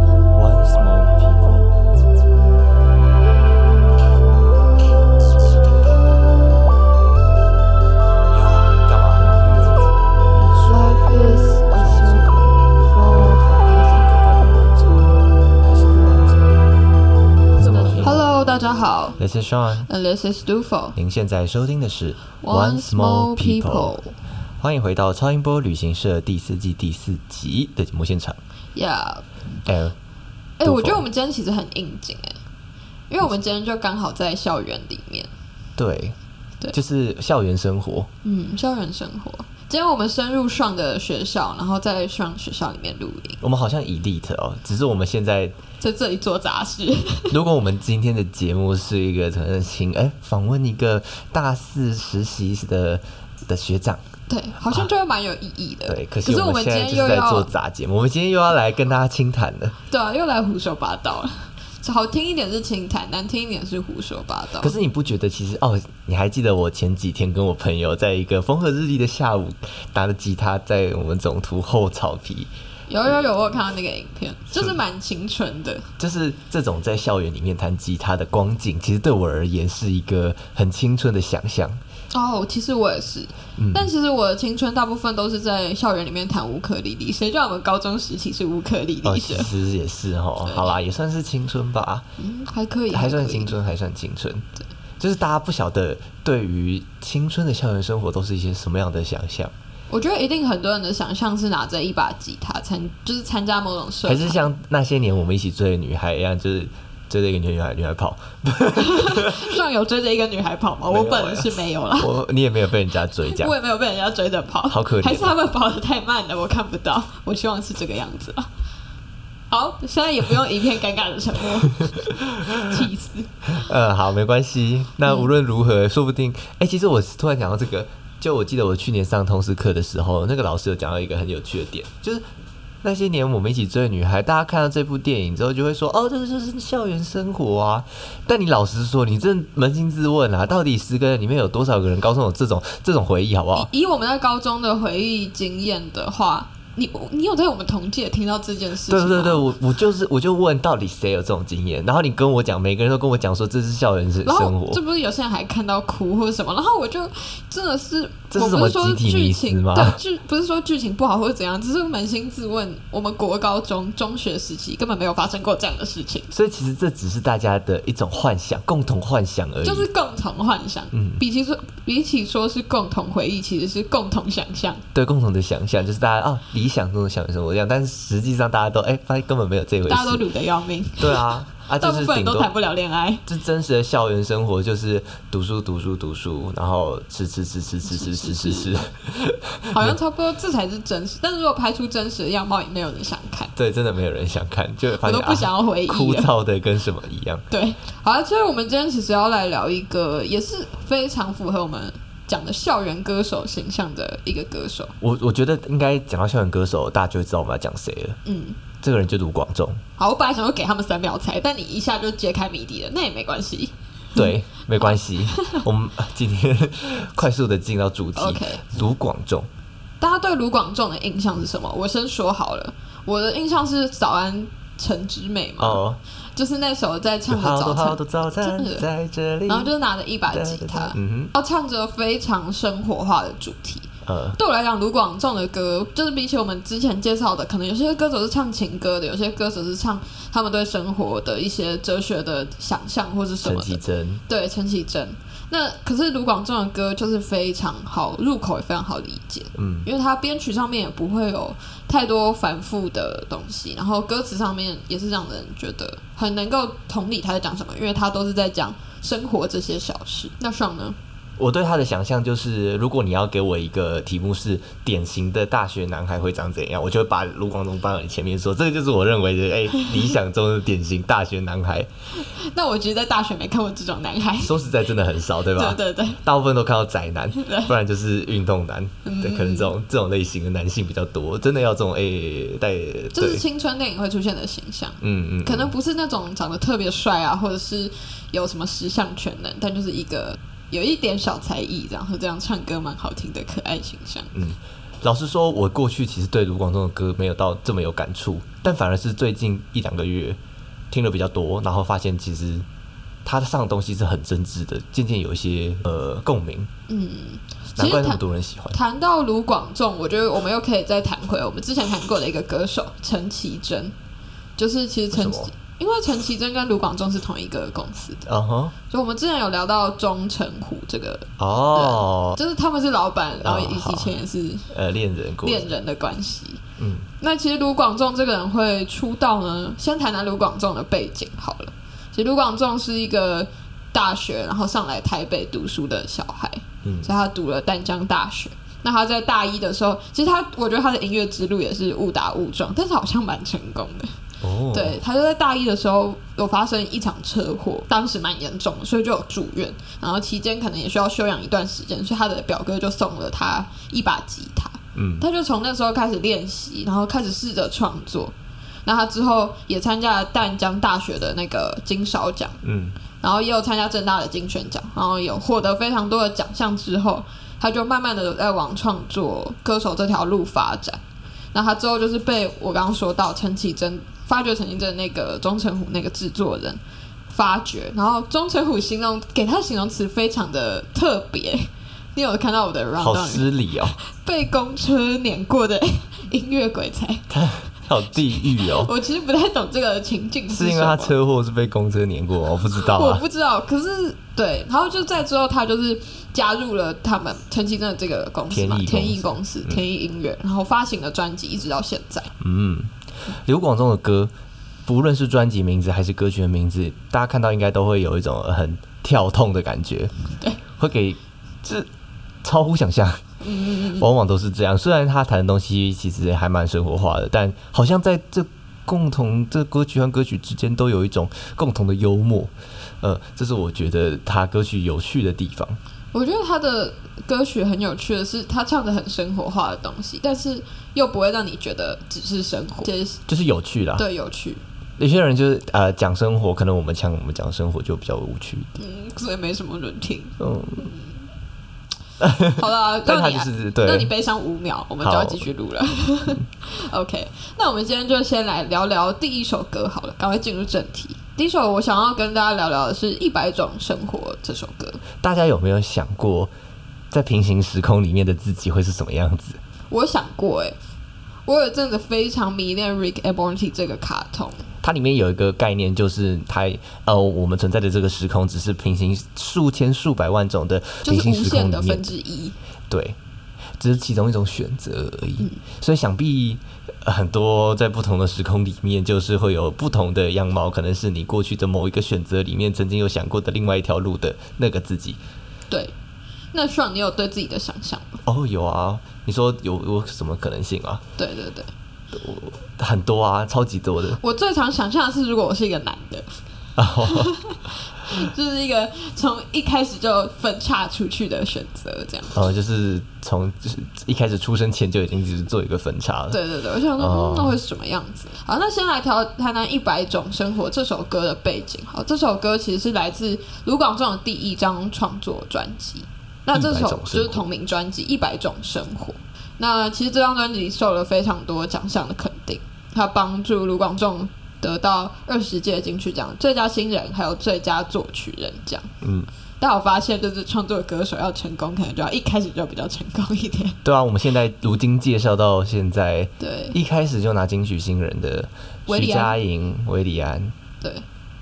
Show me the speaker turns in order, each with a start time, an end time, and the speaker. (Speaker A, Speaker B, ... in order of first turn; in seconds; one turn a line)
Speaker A: 0.3-1.8
Speaker A: 5.4-5.7
Speaker A: 8.3-16.7
Speaker B: 11.1-11.8
Speaker A: 17.6-18.3
Speaker B: 18.0-19.2
Speaker A: 19.2-19.9
Speaker B: 19.9-21.0
Speaker A: 21.0-24.0
Speaker B: 22.4-24.1
Speaker A: 24.6-28.4
Speaker B: 28.8-29.2
Speaker A: 29.7-30.0
Speaker B: 30.6-32.4
Speaker A: 30.6-31.1
Speaker B: 33.1-35.3
Speaker A: 35.8-36.2
Speaker A: 36.7-38.1
Speaker B: 38.2-43.4
Speaker A: 43.4-45.6
Speaker B: 45.8-47.4
Speaker A: 47.3-54.0
Speaker B: 54.3-57.5
Speaker A: 55.9-59.8
Speaker B: 59.9-64.7
Speaker A: 64.6-72.5
Speaker B: 72.9-75.9
Speaker A: 76.0-81.8
Speaker B: 82.1-89.5
Speaker A: 83.6-83.9
Speaker A: 89.0-92.1
Speaker B: 90.5-90.8
Speaker B: 92.2-93.5
Speaker A: 92.9-94.5
Speaker A: 95.0-99.5
Speaker B: 99.9-104.4
Speaker A: 104.1-109.6
Speaker B: 108.8-112.2
Speaker A: 110.9-113.5
Speaker B: 113.2-118.5
Speaker A: 114.7-115.3
Speaker B: 119.5-123.7
Speaker A: 122.1-122.7
Speaker A: 123.5-132.2
Speaker A: 132.8-143.7
Speaker B: 143.5-149.5
Speaker A: 148.9-154.8
Speaker B: 154.2-166.3
Speaker A: 158.3-160.0
Speaker A: 166.3-169.9
Speaker B: 169.6-174.8
Speaker A: 170.9-171.2
Speaker A: 174.9-180.2
Speaker B: 179.9-183.2
Speaker A: 181.0-182.5
Speaker A: 183.3-190.0
Speaker B: 187.9-188.8
Speaker B: 189.7-193.5
Speaker A: 193.6-197.4
Speaker B: 195.0-196.3
Speaker B: 197.5-204.9
Speaker A: 205.0-208.2
Speaker B: 208.2-208.6
Speaker A: 208.8-209.8
Speaker B: 210.0-215.6
Speaker A: 214.2-219.5
Speaker B: 218.2-218.7
Speaker B: 220.0-225.8
Speaker A: 225.6-226.0
Speaker B: 226.4-228.8
Speaker A: 227.3-229.7
Speaker B: 229.5-261.0
Speaker A: 230.3-231.3
Speaker A: 234.1-234.4
Speaker A: 243.4-244.2
Speaker A: 249.6-249.9
Speaker A: 261.4-271.9
Speaker B: 272.2-274.6
Speaker A: 274.4-283.4
Speaker B: 275.5-276.2
Speaker B: 277.4-277.7
Speaker B: 279.1-279.7
Speaker B: 283.1-294.3
Speaker A: 285.0-285.7
Speaker A: 294.3-300.4
Speaker A: 300.9-302.7
Speaker A: 303.2-306.7
Speaker B: 306.9-313.9
Speaker A: 307.8-308.8
Speaker B: 314.6-318.2
Speaker A: 315.1-315.5
Speaker A: 318.3-318.7
Speaker B: 318.9-324.7
Speaker A: 321.4-322.4
Speaker A: 323.4-324.1
Speaker A: 324.7-325.7
Speaker B: 325.4-326.6
Speaker A: 326.8-327.1
Speaker B: 327.2-344.2
Speaker A: 336.8-337.1
Speaker A: 344.4-345.0
Speaker B: 344.7-358.3
Speaker A: 354.9-355.2
Speaker B: 358.9-362.6
Speaker A: 362.6-363.0
Speaker B: 363.2-371.0
Speaker B: 371.5-387.3
Speaker A: 383.0-384.0
Speaker A: 387.3-388.9
Speaker B: 388.4-391.1
Speaker A: 390.5-393.2
Speaker B: 392.7-402.3
Speaker A: 398.5-399.8
Speaker A: 402.4-404.3
Speaker A: 404.9-410.1
Speaker A: 410.8-411.9
Speaker A: 412.4-413.2
Speaker B: 413.4-414.1
Speaker A: 413.8-425.8
Speaker B: 426.1-433.2
Speaker A: 433.3-434.0
Speaker B: 434.0-434.6
Speaker A: 435.0-438.7
Speaker B: 438.8-441.1
Speaker A: 440.4-440.9
Speaker A: 442.2-444.1
Speaker B: 442.6-455.0
Speaker A: 445.0-445.4
Speaker A: 455.2-456.5
Speaker A: 457.1-459.6
Speaker B: 459.9-460.8
Speaker B: 461.5-464.7
Speaker A: 464.8-472.1
Speaker B: 471.0-472.6
Speaker A: 472.9-473.2
Speaker A: 473.8-485.2
Speaker B: 486.5-488.2
Speaker A: 488.2-491.0
Speaker B: 491.2-491.7
Speaker A: 492.1-494.2
Speaker B: 494.2-496.3
Speaker A: 496.8-497.3
Speaker B: 497.0-502.4
Speaker A: 502.3-506.4
Speaker B: 506.3-528.9
Speaker A: 507.0-507.6
Speaker A: 516.5-517.5
Speaker A: 529.0-529.3
Speaker B: 529.6-533.8
Speaker A: 533.8-540.5
Speaker B: 536.4-536.8
Speaker B: 538.9-539.4